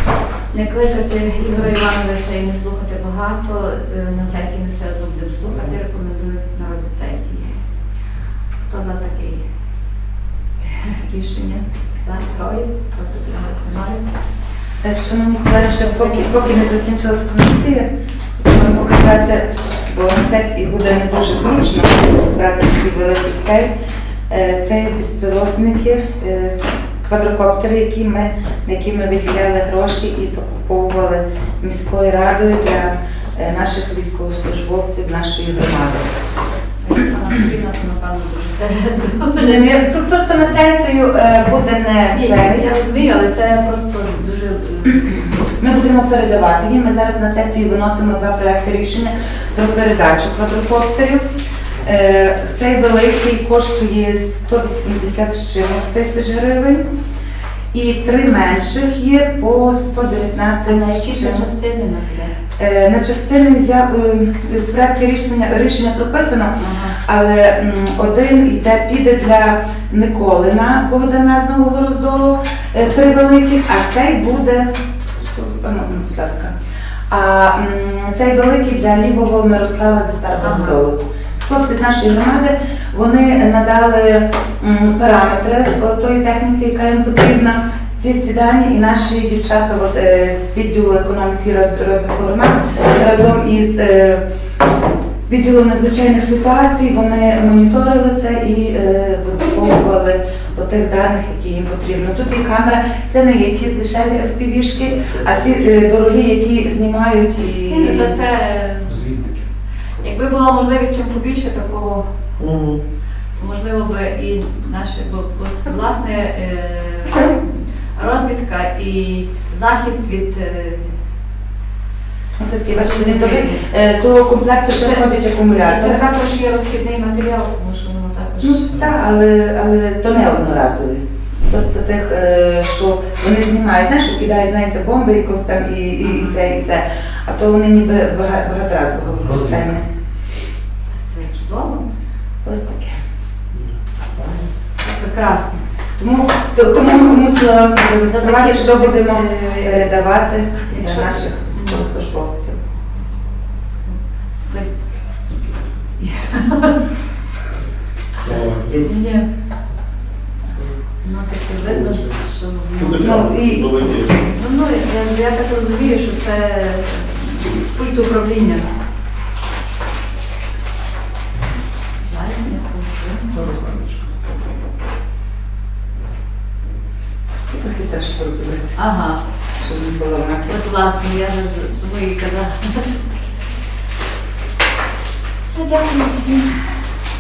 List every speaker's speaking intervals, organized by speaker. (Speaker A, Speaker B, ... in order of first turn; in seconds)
Speaker A: 0.5-7.6, 8.7-9.4, 10.6-14.1, 15.5-16.4, 36.8-39.7, 42.1-45.2, 60.6-62.4, 66.6-67.0, 80.4-80.8, 107.7-109.0, 110.0-112.1, 113.4-121.0, 122.7-123.7, 124.7-125.1, 125.6-128.8, 136.0-136.4, 140.9-141.8, 144.8-145.6, 148.1-150.1, 150.7-151.9, 153.9-154.8, 156.0-156.8, 158.2-159.3, 161.0-163.3, 164.2-168.7, 172.0-173.5, 178.8-179.2, 180.5-183.2, 185.4-186.8
Speaker B: 14.8-23.7, 24.3-36.1, 39.4-42.6, 45.6-51.2, 51.8-56.9, 57.7-61.5, 62.6-76.5, 77.1-94.2, 95.3-108.1, 122.4-126.1, 128.4-139.9, 142.4-143.0, 146.0-152.6, 163.0-163.8, 177.4-178.8, 179.6-180.5
Speaker C: 105.1-105.5, 108.9-110.2, 112.4-112.8, 143.5-144.5, 158.2-159.1, 160.5-160.8, 161.6-164.2, 173.3-174.6